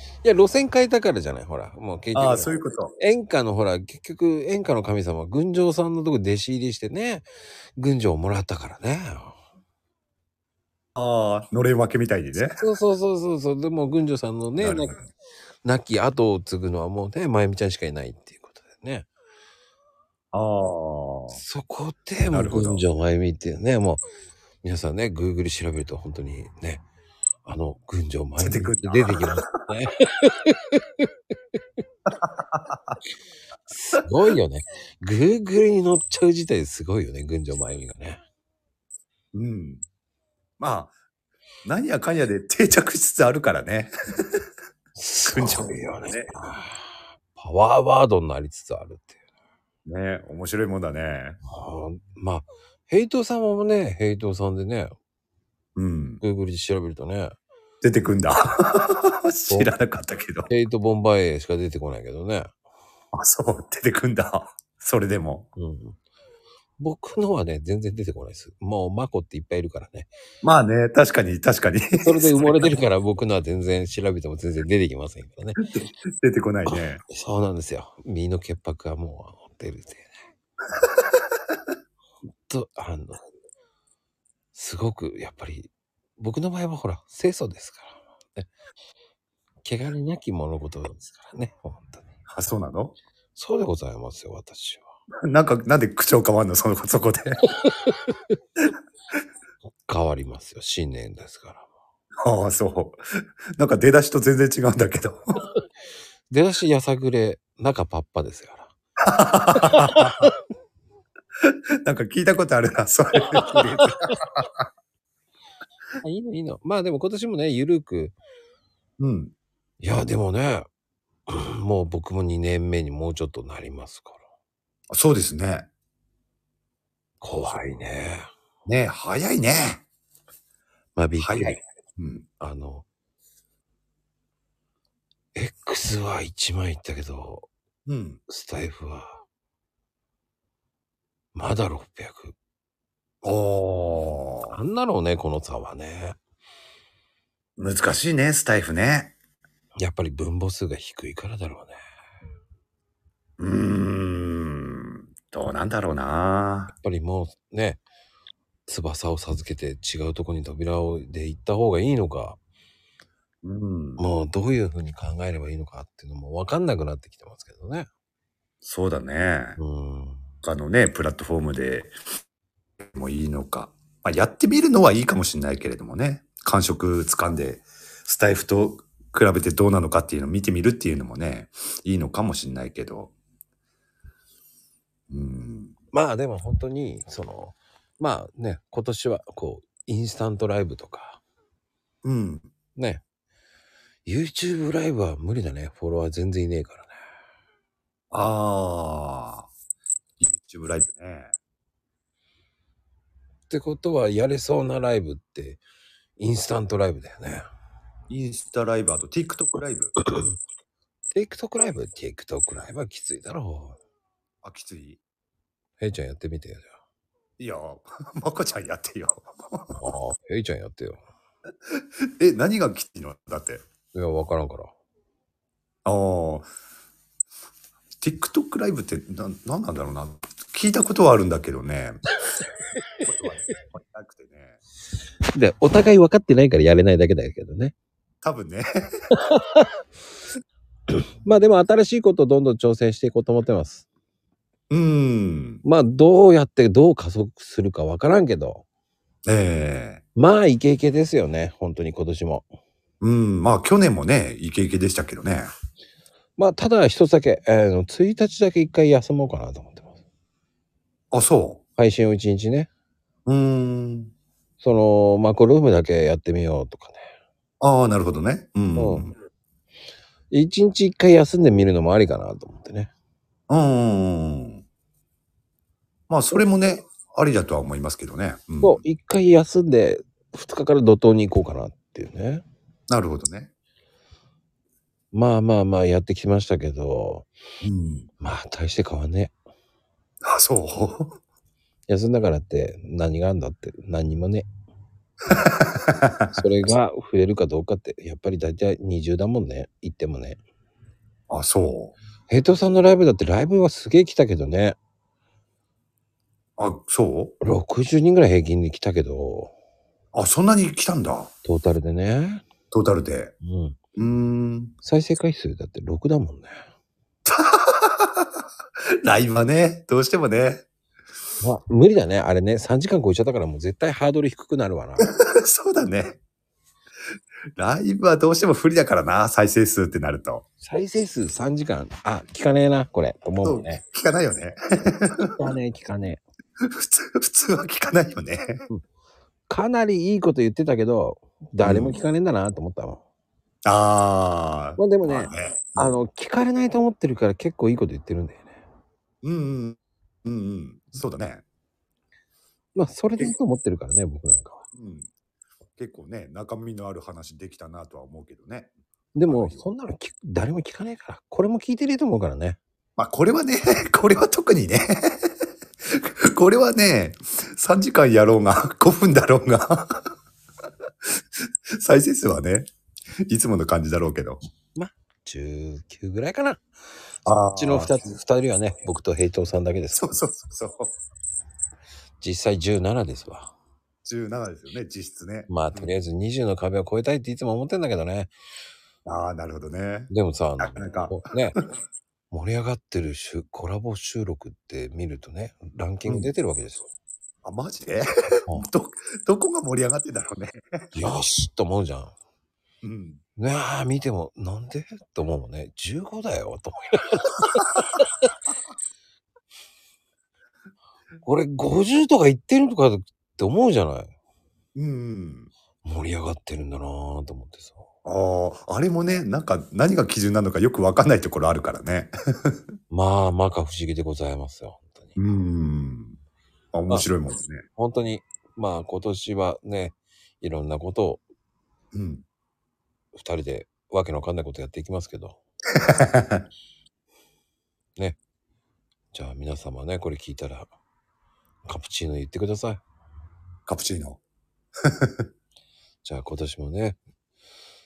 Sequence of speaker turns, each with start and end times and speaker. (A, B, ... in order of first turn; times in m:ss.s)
0:00.2-0:07.2 A
0:02.1-0:02.9 B
0:07.8-0:09.4 A
0:10.9-0:12.6 B
0:12.4-0:15.0 A
0:14.6-0:15.0 B
0:15.6-0:19.1 A
0:20.3-0:21.4 B
0:21.3-0:24.0 A
0:22.3-0:22.8 B
0:24.6-0:26.8 A
0:27.4-0:31.1 A
0:28.4-0:29.7 B
0:32.1-0:33.0 B
0:33.7-0:38.2 A
0:39.3-0:39.8 B
0:40.6-0:40.9 B
0:41.6-0:44.4 B
0:44.9-0:49.2 A
0:45.3-0:46.3 B
0:49.8-0:51.4 B
0:51.5-0:54.9 A
0:55.8-0:56.2 B
0:56.2-0:57.3 A
0:57.8-1:00.5 B
1:00.5-1:02.5 A
1:03.1-1:05.5 B
1:05.6-1:06.0 A
1:06.8-1:10.1 A
1:10.4-1:12.8 B
1:12.0-1:15.7 A
1:15.6-1:17.0 B
1:16.6-1:20.1 A
1:20.8-1:21.2 B
1:22.5-1:23.2 A
1:24.5-1:28.5 A
1:29.6-1:32.1 A
1:32.3-1:32.9 B
1:33.3-1:34.9 A
1:35.2-1:37.4 B
1:37.6-1:38.2 A
1:39.9-1:41.7 A
1:42.2-1:43.0 B
1:43.6-1:45.4 B
1:46.3-1:48.7 A
1:49.0-1:50.3 B
1:49.6-1:50.3 A
1:51.5-1:54.6 B
1:53.5-1:54.1 A
1:56.0-1:58.2 A
1:59.0-1:59.3 B
1:59.8-2:00.7 A
2:01.3-2:04.2 A
2:04.9-2:05.7 B
2:07.2-2:08.3 A
2:08.6-2:09.8 B
2:11.0-2:11.6 A
2:11.2-2:12.2 B
2:12.4-2:12.8 A
2:15.3-2:17.5 A
2:17.9-2:18.2 B
2:18.3-2:19.2 A
2:21.3-2:22.4 A
2:23.2-2:24.6 B
2:24.5-2:26.2 A
2:27.6-2:29.1 B
2:29.8-2:31.8 A
2:33.4-2:36.7 B
2:36.7-2:37.8 A
2:38.7-2:42.4 A
2:43.4-2:44.0 B
2:44.0-2:47.9 A
2:48.6-2:49.6 B
2:49.6-2:50.2 A
2:50.4-2:51.9 B
2:52.8-3:03.1 B
3:05.1-3:05.7 B
3:05.9-3:11.2 A
3:12.0-3:12.5 B
3:12.8-3:13.0 A
3:14.0-3:16.9 A
3:18.1-3:19.5 B
3:20.2-3:21.3 B
3:23.5-3:25.6 A
3:26.2-3:27.4 A
3:28.1-3:30.0 B
3:31.1-3:33.8 A
3:34.4-3:35.0 B
3:35.8-3:36.7 A
3:37.4-3:39.8 B
3:39.7-3:41.0 A
3:41.7-3:43.6 B
3:43.9-3:44.7 A
3:45.8-3:46.5 B
3:48.0-3:52.0 B
3:53.0-3:54.6 B
3:55.3-3:57.7 A
3:58.2-3:58.6 B
3:59.1-3:59.7 A
4:01.2-4:03.8 A
4:04.7-4:05.6 B
4:05.6-4:08.6 A
4:09.2-4:10.0 B
4:10.2-4:12.5 A
4:13.0-4:15.5 B
4:16.4-4:19.9 A
4:21.1-4:21.6 B
4:21.8-4:22.7 A
4:23.2-4:24.1 B
4:24.6-4:27.1 A
4:27.6-4:29.1 B
4:28.8-4:29.1 A
4:30.3-4:32.9 A
4:33.5-4:34.6 B
4:36.1-4:38.8 B
4:38.6-4:42.4 A
4:42.9-4:43.5 B
4:45.1-4:47.3 A
4:47.6-4:48.1 B
4:48.2-4:49.3 A
4:50.2-4:51.2 B
4:51.9-4:54.5 A
4:55.3-4:56.4 B
4:56.3-5:00.4 A
5:01.3-5:01.9 B
5:02.3-5:04.8 A
5:06.6-5:07.3 B
5:07.4-5:09.5 A
5:10.1-5:11.3 B
5:11.4-5:12.4 A
5:12.7-5:13.3 B
5:13.4-5:13.8 A
5:14.0-5:14.7 B
5:14.8-5:16.6 A
5:17.2-5:18.3 B
5:19.0-5:20.6 B
5:21.4-5:25.1 A
5:25.0-5:26.2 B
5:27.6-5:30.4 B
5:30.6-5:33.8 A
5:33.4-5:35.3 B
5:35.2-5:36.2 A
5:36.6-5:38.6 B
5:39.5-5:43.0 A
5:41.6-5:42.0 B
5:43.6-5:46.0 B
5:44.8-5:48.6 A
5:49.2-5:51.4 B
5:52.7-5:54.6 A
5:54.7-5:55.1 B
5:55.8-5:58.7 B
5:59.1-6:02.6 A
5:59.2-5:59.7 B
6:03.0-6:05.3 B
6:05.8-6:10.0 B
6:11.8-6:12.7 B
6:13.3-6:14.4 B
6:14.7-6:16.6 A
6:17.2-6:17.9 B
6:17.5-6:20.1 A
6:19.9-6:20.9 B
6:22.2-6:23.5 A
6:24.0-6:26.0 B
6:25.5-6:28.3 A
6:29.0-6:31.2 B
6:30.1-6:31.6 A
6:32.3-6:36.9 A
6:36.1-6:36.3 B
6:37.4-6:40.6 B
6:40.9-6:42.1 A
6:42.8-6:43.2 B
6:43.4-6:48.2 A
6:51.2-6:54.1 A
6:54.7-6:55.5 B
6:55.8-6:57.9 A
6:58.0-7:02.6 B
7:02.9-7:05.2 A
7:05.2-7:06.2 B
7:06.7-7:07.6 B
7:07.8-7:11.2 A
7:11.9-7:12.2 B
7:13.1-7:15.4 A
7:15.7-7:16.4 B
7:19.1-7:20.7 A
7:21.6-7:22.8 A
7:23.7-7:24.2 B
7:24.8-7:25.2 B
7:26.0-7:27.0 A